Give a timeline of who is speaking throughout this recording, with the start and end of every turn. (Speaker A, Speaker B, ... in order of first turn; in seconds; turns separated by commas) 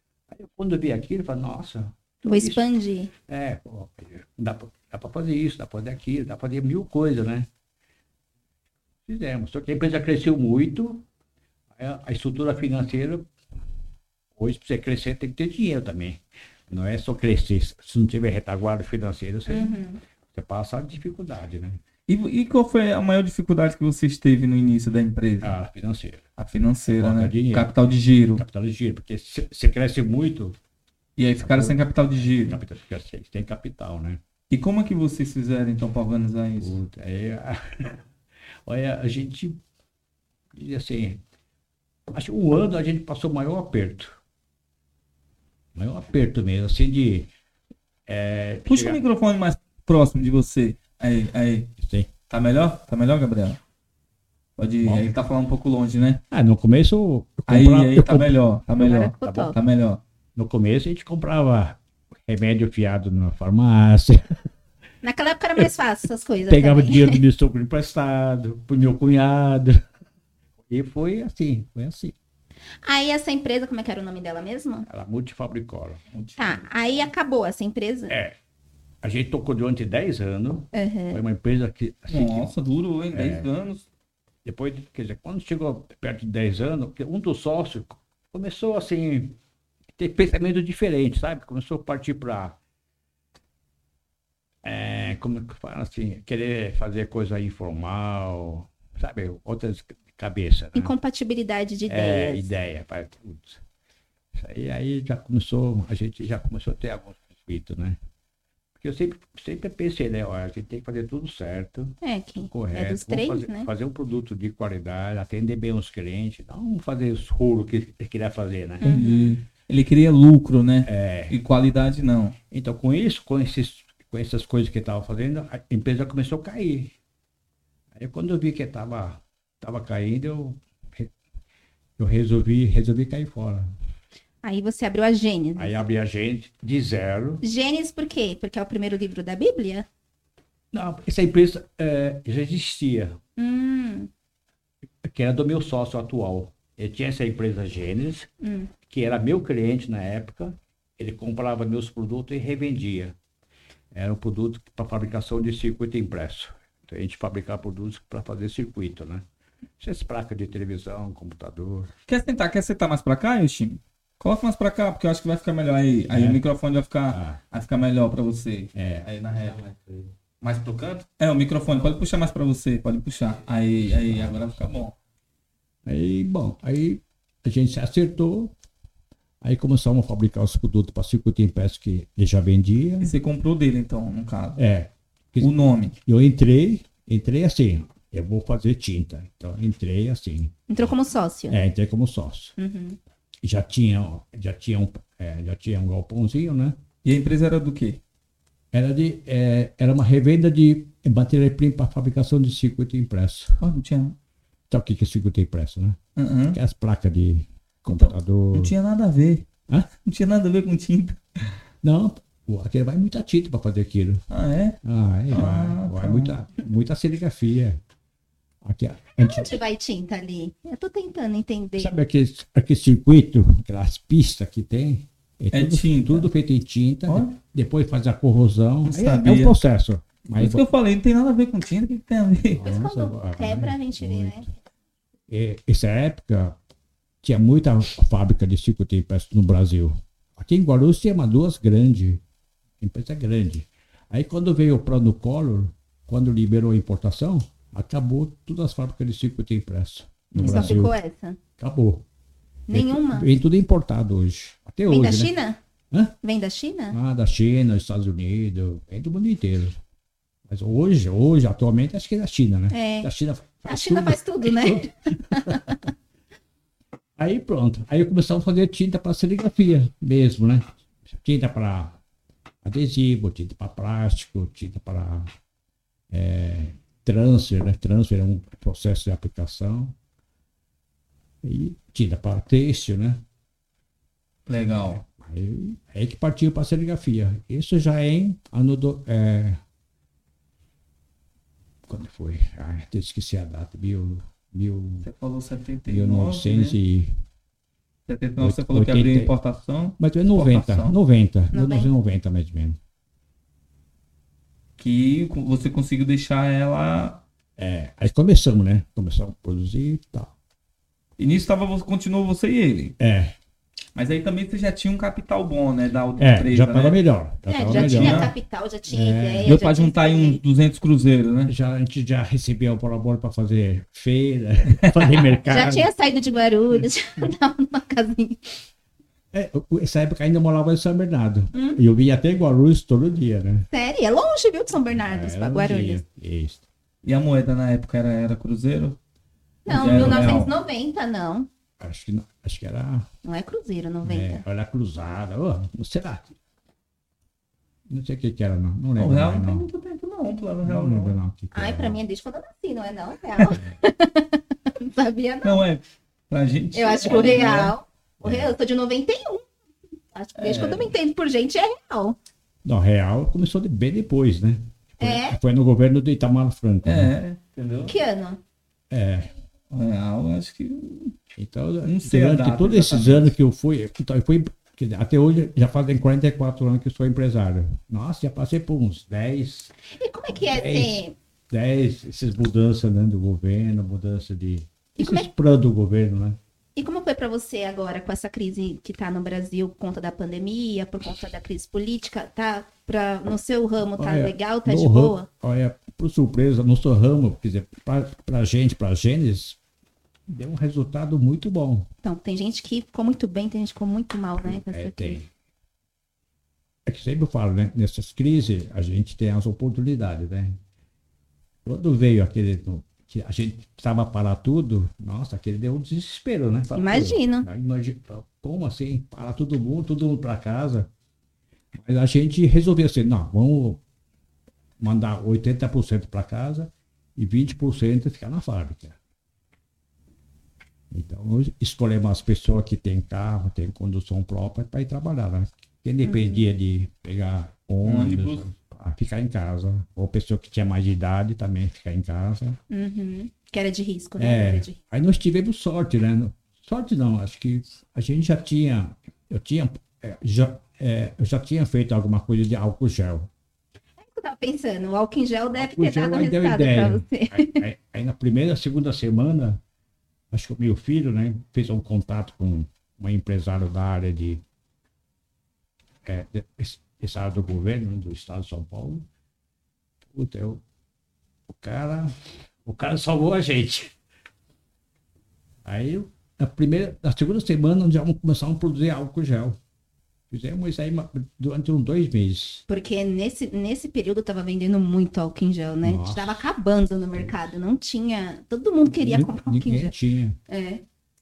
Speaker A: 0.3-2.6, Speaker B: 2.2-3.1, Speaker A: 3.3-7.5, Speaker A: 9.1-11.1, Speaker A: 11.8-13.3, Speaker A: 14.4-19.8, Speaker B: 19.5-20.0, Speaker A: 20.3-21.8, Speaker C: 22.1-25.6, Speaker A: 25.4-26.3, Speaker C: 26.4-28.4, Speaker A: 26.9-27.7, Speaker A: 28.4-30.6, Speaker C: 31.2-32.6, Speaker A: 31.4-34.2, Speaker C: 34.5-36.8, Speaker A: 36.6-38.0, Speaker A: 38.7-39.6, Speaker A: 40.5-41.2, Speaker A: 42.1-44.2, Speaker A: 45.8-47.3, Speaker A: 48.1-49.0, Speaker C: 48.7-51.7, Speaker A: 51.8-52.1, Speaker C: 52.3-53.6, Speaker C: 54.6-56.2, Speaker A: 54.8-55.1, Speaker A: 56.3-59.5, Speaker C: 57.5-60.0, Speaker B: 58.8-59.6, Speaker A: 60.4-64.5, Speaker B: 65.0-67.2, Speaker A: 66.5-69.8, Speaker A: 70.7-72.2, Speaker B: 72.8-74.9, Speaker A: 74.9-76.0, Speaker C: 76.1-76.6, Speaker B: 76.4-78.2, Speaker A: 78.1-78.3, Speaker A: 79.0-82.5, Speaker B: 80.7-81.2, Speaker C: 82.1-83.9, Speaker A: 83.1-83.5, Speaker A: 84.5-89.4, Speaker A: 90.0-92.6, Speaker A: 94.6-100.9, Speaker B: 100.8-102.5, Speaker A: 101.9-103.6, Speaker A: 104.3-108.0, Speaker A: 108.8-112.0, Speaker B: 112.0-113.7, Speaker A: 112.5-118.8, Speaker B: 118.8-119.3, Speaker C: 118.8-122.3, Speaker A: 120.8-121.4, Speaker A: 122.5-126.9, Speaker A: 127.9-131.1, Speaker A: 132.0-133.7, Speaker B: 134.4-135.8, Speaker A: 135.6-137.4, Speaker B: 137.4-139.9, Speaker A: 140.7-143.2, Speaker B: 143.4-144.1, Speaker A: 145.0-148.3, Speaker B: 148.4-148.7, Speaker A: 148.9-153.2, Speaker A: 153.9-159.2, Speaker A: 159.8-161.9, Speaker C: 162.1-169.7, Speaker A: 166.1-166.4, Speaker A: 167.1-167.4, Speaker A: 168.8-170.0, Speaker C: 170.4-174.9, Speaker A: 175.9-178.5, Speaker A: 179.4-183.1, Speaker C: 183.0-184.6, Speaker A: 184.6-190.6, Speaker C: 185.4-185.9, Speaker B: 190.7-191.6, Speaker A: 191.5-192.6, Speaker B: 192.6-193.0, Speaker A: 193.4-196.8, Speaker C: 197.0-198.0, Speaker A: 198.7-203.6, Speaker C: 203.6-204.2, Speaker A: 204.7-206.0, Speaker C: 206.2-206.6, Speaker A: 206.5-208.7, Speaker C: 207.9-211.2, Speaker A: 211.8-214.2, Speaker C: 214.3-214.8, Speaker A: 214.8-217.8, Speaker C: 215.3-216.4, Speaker A: 218.6-219.6, Speaker B: 219.2-221.9, Speaker A: 221.8-230.7, Speaker C: 225.5-226.3, Speaker C: 227.1-227.3, Speaker C: 228.9-229.6, Speaker C: 230.4-232.7, Speaker A: 232.5-234.5, Speaker B: 232.6-234.5, Speaker A: 235.3-236.6, Speaker A: 237.2-242.2, Speaker A: 242.8-250.9, Speaker C: 250.3-250.8, Speaker B: 250.4-251.4, Speaker A: 251.6-252.1, Speaker B: 252.7-253.3, Speaker A: 252.7-255.3, Speaker B: 254.9-255.6, Speaker B: 256.2-257.0, Speaker A: 256.9-259.8, Speaker A: 260.5-265.8, Speaker B: 262.7-263.1, Speaker B: 263.7-265.8, Speaker A: 267.2-272.0, Speaker A: 272.6-275.3, Speaker A: 276.1-279.9, Speaker A: 281.4-283.2, Speaker C: 284.5-285.0, Speaker A: 284.8-289.6, Speaker A: 291.9-295.1, Speaker C: 295.0-296.8, Speaker A: 295.9-297.1, Speaker C: 298.1-300.9, Speaker A: 298.4-299.3, Speaker A: 300.0-302.8, Speaker B: 301.5-301.9, Speaker C: 304.8-307.2, Speaker A: 307.6-310.3, Speaker C: 311.2-312.9, Speaker A: 313.0-313.4, Speaker C: 313.9-317.0, Speaker A: 316.2-318.3, Speaker B: 317.5-320.4, Speaker C: 317.7-318.3, Speaker A: 318.9-319.5, Speaker C: 319.4-321.5, Speaker A: 321.5-325.9, Speaker C: 324.7-325.1, Speaker B: 325.5-328.6, Speaker A: 329.3-333.7, Speaker B: 331.5-331.8, Speaker B: 333.7-336.0, Speaker A: 335.0-336.6, Speaker C: 337.0-339.0, Speaker B: 339.7-341.5, Speaker C: 339.7-340.5, Speaker A: 339.8-340.4, Speaker A: 341.8-343.1, Speaker B: 343.2-344.4, Speaker A: 344.0-346.4, Speaker A: 347.9-349.7, Speaker C: 349.0-351.1, Speaker A: 350.6-352.0, Speaker B: 351.5-355.7, Speaker C: 355.4-357.8, Speaker B: 356.7-359.5, Speaker A: 358.2-358.5, Speaker B: 360.1-362.2, Speaker C: 360.4-360.9, Speaker A: 362.6-367.1, Speaker B: 365.0-365.4, Speaker C: 366.9-367.9, Speaker B: 367.9-368.4, Speaker A: 368.9-369.3, Speaker C: 369.7-371.2, Speaker A: 371.3-379.7, Speaker C: 371.8-373.3, Speaker B: 379.9-381.2, Speaker A: 380.4-381.0, Speaker A: 381.5-386.4, Speaker B: 385.0-385.3, Speaker B: 386.8-395.3, Speaker A: 394.0-399.6, Speaker A: 400.3-401.9, Speaker B: 402.0-405.2, Speaker A: 404.5-405.3, Speaker A: 406.9-410.6, Speaker A: 411.6-420.9, Speaker B: 416.8-417.5, Speaker A: 421.8-423.8, Speaker A: 424.8-429.0, Speaker A: 430.9-442.6, Speaker B: 436.0-436.4, Speaker C: 437.9-438.5, Speaker B: 442.7-444.8, Speaker A: 444.2-453.3, Speaker B: 454.0-457.6, Speaker A: 455.6-459.6, Speaker A: 460.3-464.4, Speaker A: 466.1-469.1, Speaker A: 470.1-470.6, Speaker A: 471.5-473.9, Speaker A: 475.6-479.6, Speaker A: 480.3-482.6, Speaker B: 482.7-489.9, Speaker A: 485.8-486.5, Speaker A: 489.0-490.4, Speaker B: 490.5-490.8